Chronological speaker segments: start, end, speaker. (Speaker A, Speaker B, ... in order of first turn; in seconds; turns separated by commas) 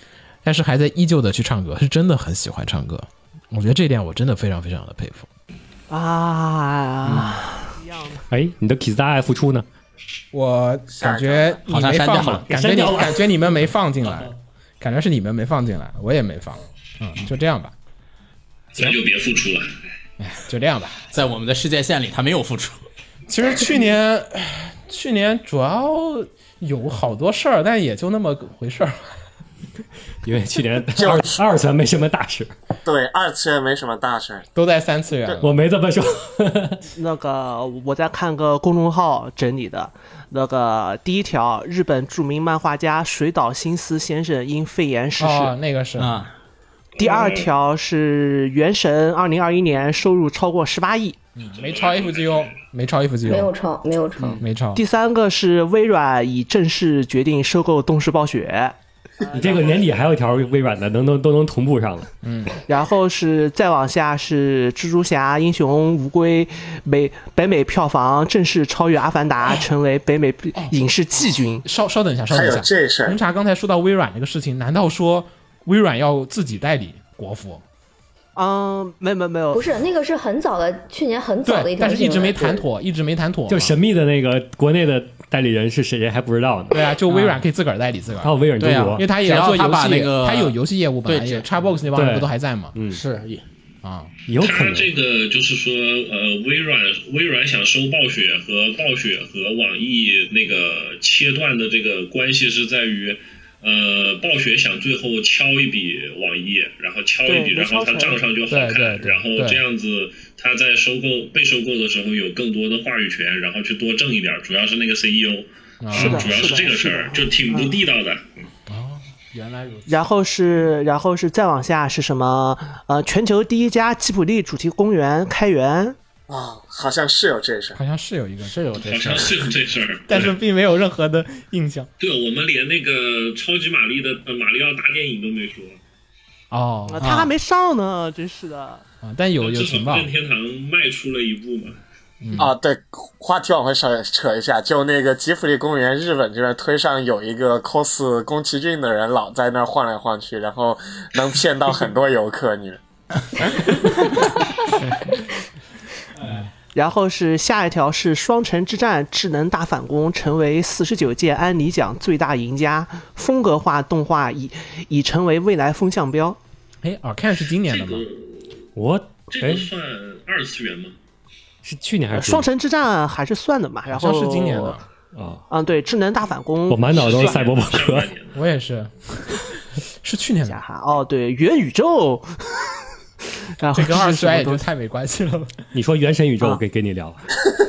Speaker A: 0.4-5.3, Speaker B: 5.9-8.2, Speaker C: 8.3-9.7, Speaker A: 10.3-17.7, Speaker D: 10.9-11.6, Speaker E: 11.7-12.5, Speaker C: 12.5-13.3, Speaker F: 18.7-19.7, Speaker A: 20.2-21.1, Speaker E: 21.1-22.8, Speaker A: 23.3-28.9, Speaker C: 30.2-32.5, Speaker D: 30.9-31.4, Speaker D: 32.8-34.5, Speaker A: 34.5-35.5, Speaker C: 35.4-36.8, Speaker B: 37.0-45.5, Speaker A: 45.2-46.2, Speaker E: 46.0-46.3, Speaker F: 47.0-47.5, Speaker B: 47.0-51.2, Speaker A: 51.4-53.5, Speaker F: 51.6-52.6, Speaker G: 53.2-54.4, Speaker A: 54.4-54.8, Speaker B: 54.7-58.8, Speaker C: 59.3-62.1, Speaker E: 59.3-59.9, Speaker A: 62.2-62.6, Speaker B: 62.7-71.6, Speaker A: 71.6-77.6, Speaker D: 72.3-73.2, Speaker B: 78.3-79.7, Speaker G: 79.5-82.3, Speaker A: 81.4-83.8, Speaker D: 82.2-82.6, Speaker C: 83.5-86.8, Speaker A: 86.7-88.3, Speaker E: 87.1-87.4, Speaker C: 88.2-89.0, Speaker E: 88.6-91.5, Speaker A: 89.0-92.7, Speaker C: 91.9-93.0, Speaker E: 92.8-93.4, Speaker A: 93.8-94.1, Speaker C: 94.3-94.9, Speaker F: 94.4-118.2, Speaker B: 107.2-108.2, Speaker A: 108.5-109.6, Speaker A: 115.8-116.3, Speaker B: 115.9-117.8, Speaker A: 118.7-120.0, Speaker B: 119.9-126.0, Speaker D: 126.3-127.8, Speaker A: 127.8-128.6, Speaker E: 128.4-129.5, Speaker F: 128.8-130.3, Speaker A: 130.1-131.9, Speaker F: 132.0-135.8, Speaker A: 136.5-137.3, Speaker B: 136.9-138.8, Speaker E: 137.0-137.3, Speaker A: 139.0-140.1, Speaker F: 139.4-141.8, Speaker A: 142.2-142.5, Speaker D: 142.3-152.8, Speaker E: 156.2-156.5, Speaker B: 156.7-166.4, Speaker A: 166.8-168.0, Speaker F: 167.4-168.6, Speaker C: 168.8-169.7, Speaker F: 169.3-170.9, Speaker C: 171.6-172.5, Speaker B: 172.1-174.8, Speaker A: 173.9-174.8, Speaker C: 175.1-175.4, Speaker B: 175.5-177.3, Speaker C: 176.7-178.1, Speaker F: 176.9-178.4, Speaker A: 178.3-179.4, Speaker A: 180.0-180.6, Speaker B: 180.4-182.7, Speaker B: 183.6-184.6, Speaker A: 183.7-185.6, Speaker C: 185.7-187.3